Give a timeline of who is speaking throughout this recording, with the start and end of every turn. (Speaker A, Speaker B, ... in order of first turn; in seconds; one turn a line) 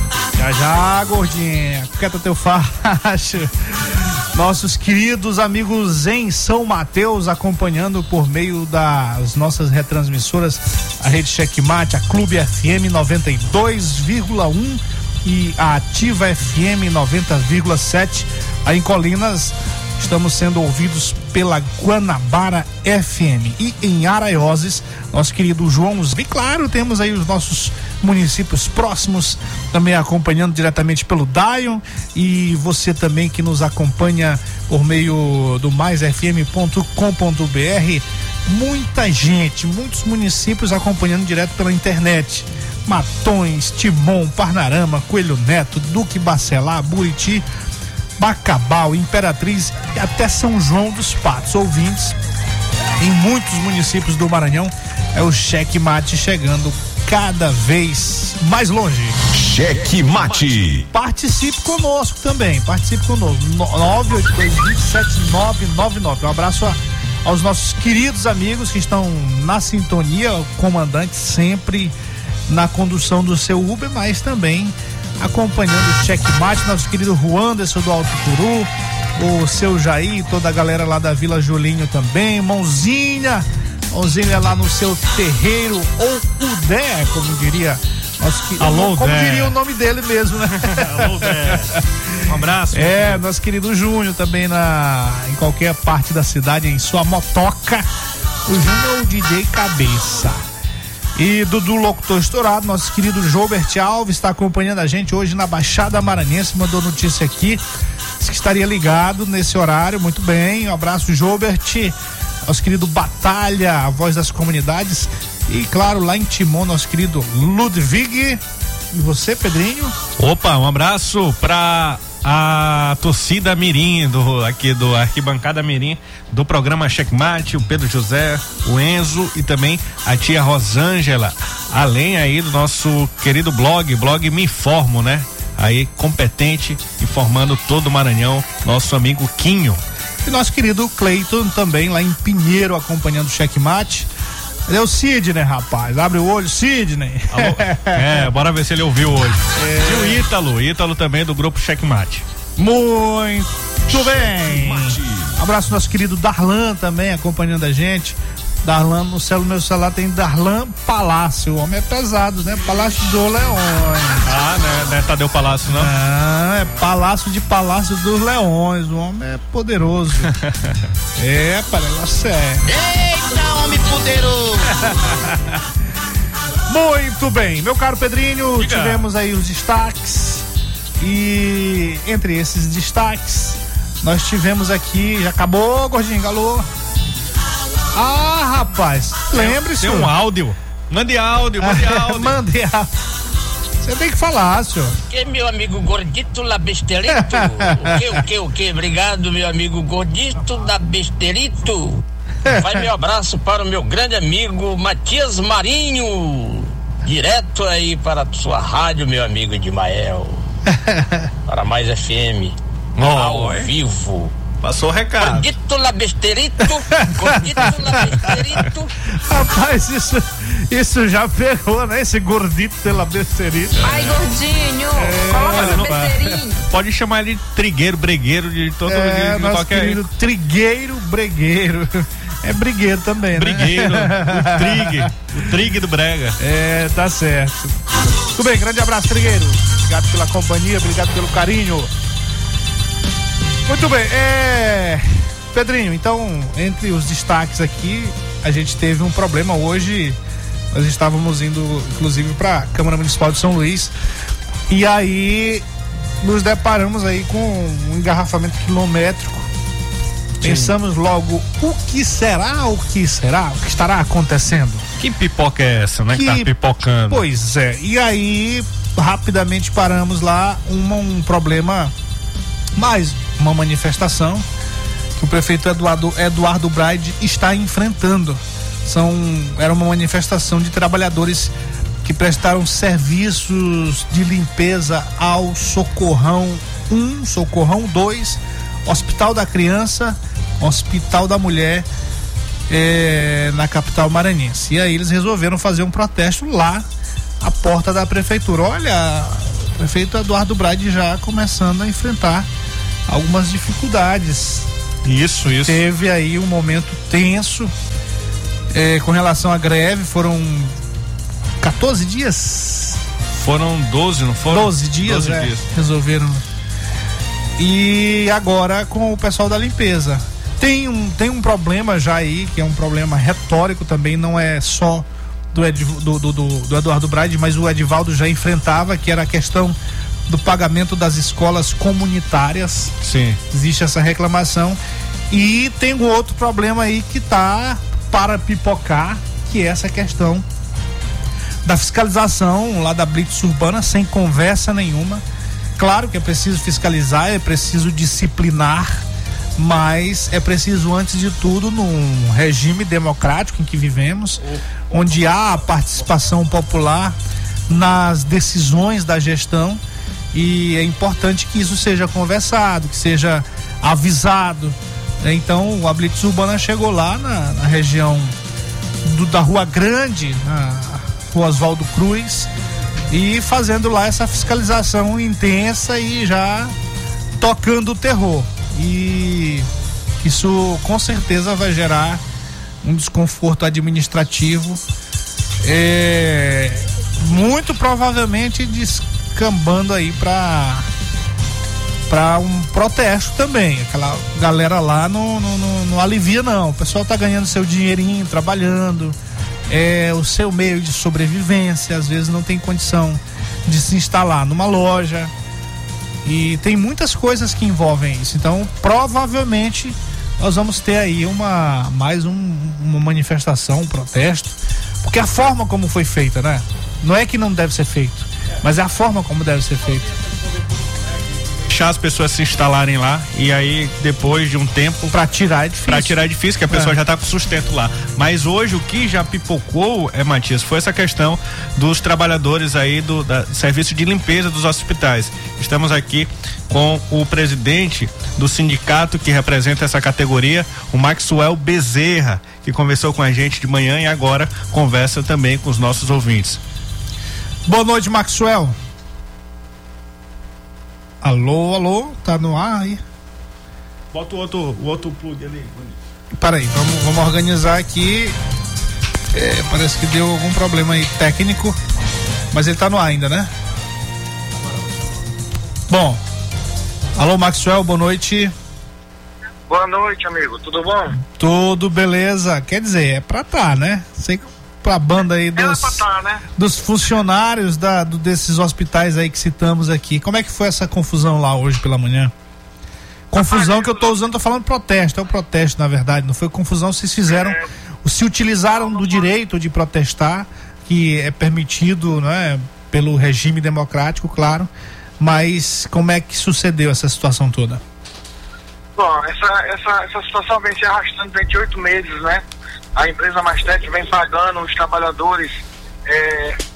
Speaker A: 0.3-47.4
Speaker A: 48.2-52.2
Speaker A: 53.0-59.2
Speaker B: 59.3-60.9
Speaker A: 60.2-71.9
Speaker A: 72.5-91.8
Speaker C: 88.6-89.5
Speaker C: 90.5-93.2
Speaker A: 92.7-97.9
Speaker A: 98.5-100.4
Speaker A: 101.2-107.6
Speaker A: 108.2-118.4
Speaker A: 118.9-119.9
Speaker C: 120.2-139.8
Speaker A: 140.2-144.1
Speaker A: 144.7-148.3
Speaker C: 147.3-152.2
Speaker A: 149.6-150.2
Speaker A: 152.6-164.3
Speaker B: 153.9-155.3
Speaker C: 164.2-165.9
Speaker A: 165.7-170.3
Speaker C: 170.2-170.8
Speaker A: 171.2-172.7
Speaker D: 172.6-174.9
Speaker A: 174.8-175.1
Speaker A: 176.7-180.5
Speaker C: 178.6-179.1
Speaker A: 181.0-186.7
Speaker A: 187.9-190.1
Speaker C: 189.3-192.4
Speaker A: 191.6-192.9
Speaker A: 193.8-194.9
Speaker D: 195.1-210.4
Speaker A: 197.2-198.2
Speaker A: 202.5-202.8
Speaker A: 210.7-211.3
Speaker D: 211.5-214.3
Speaker C: 213.0-213.7
Speaker C: 214.6-215.5
Speaker D: 215.2-218.9
Speaker A: 216.9-223.9
Speaker C: 223.8-224.2
Speaker E: 223.8-226.6
Speaker A: 224.9-226.0
Speaker C: 225.4-230.0
Speaker A: 228.9-235.1
Speaker C: 233.4-236.4
Speaker A: 236.4-237.8
Speaker A: 238.3-241.9
Speaker A: 243.7-250.2
Speaker A: 250.7-253.9
Speaker A: 254.7-255.6
Speaker A: 256.2-259.5
Speaker C: 260.4-260.7
Speaker A: 260.4-264.9
Speaker C: 265.0-267.2
Speaker A: 266.1-266.5
Speaker A: 267.1-271.9
Speaker A: 272.8-274.4
Speaker A: 275.1-291.9
Speaker A: 292.7-296.9
Speaker A: 297.4-302.5
Speaker A: 303.1-304.7
Speaker C: 305.0-305.8
Speaker A: 305.6-307.7
Speaker A: 308.7-310.7
Speaker A: 311.6-313.0
Speaker C: 313.3-315.6
Speaker A: 314.5-316.4
Speaker A: 317.6-329.8
Speaker A: 330.3-333.0
Speaker C: 333.0-333.4
Speaker A: 333.5-334.8
Speaker A: 335.3-340.4
Speaker A: 341.6-345.2
Speaker A: 345.8-349.0
Speaker A: 349.6-357.1
Speaker A: 357.7-359.8
Speaker A: 360.3-368.4
Speaker A: 369.0-372.5
Speaker A: 373.1-376.7
Speaker A: 377.4-379.7
Speaker A: 380.2-382.2
Speaker A: 382.8-384.8
Speaker A: 385.6-390.9
Speaker A: 392.1-399.2
Speaker A: 399.7-405.3
Speaker A: 406.2-420.1
Speaker C: 421.7-425.1
Speaker A: 425.1-426.2
Speaker C: 425.9-446.6
Speaker A: 426.7-426.9
Speaker A: 447.6-448.8
Speaker A: 451.2-453.0
Speaker C: 454.1-456.0
Speaker A: 456.3-458.4
Speaker A: 459.3-461.8
Speaker A: 462.5-463.5
Speaker A: 465.9-466.2
Speaker A: 467.1-468.5
Speaker F: 469.7-471.1
Speaker A: 471.3-476.0
Speaker F: 475.6-476.4
Speaker A: 476.6-482.3
Speaker A: 483.3-497.8
Speaker F: 483.4-484.1
Speaker F: 487.3-487.6
Speaker F: 488.8-489.2
Speaker F: 498.9-502.4
Speaker F: 502.9-506.6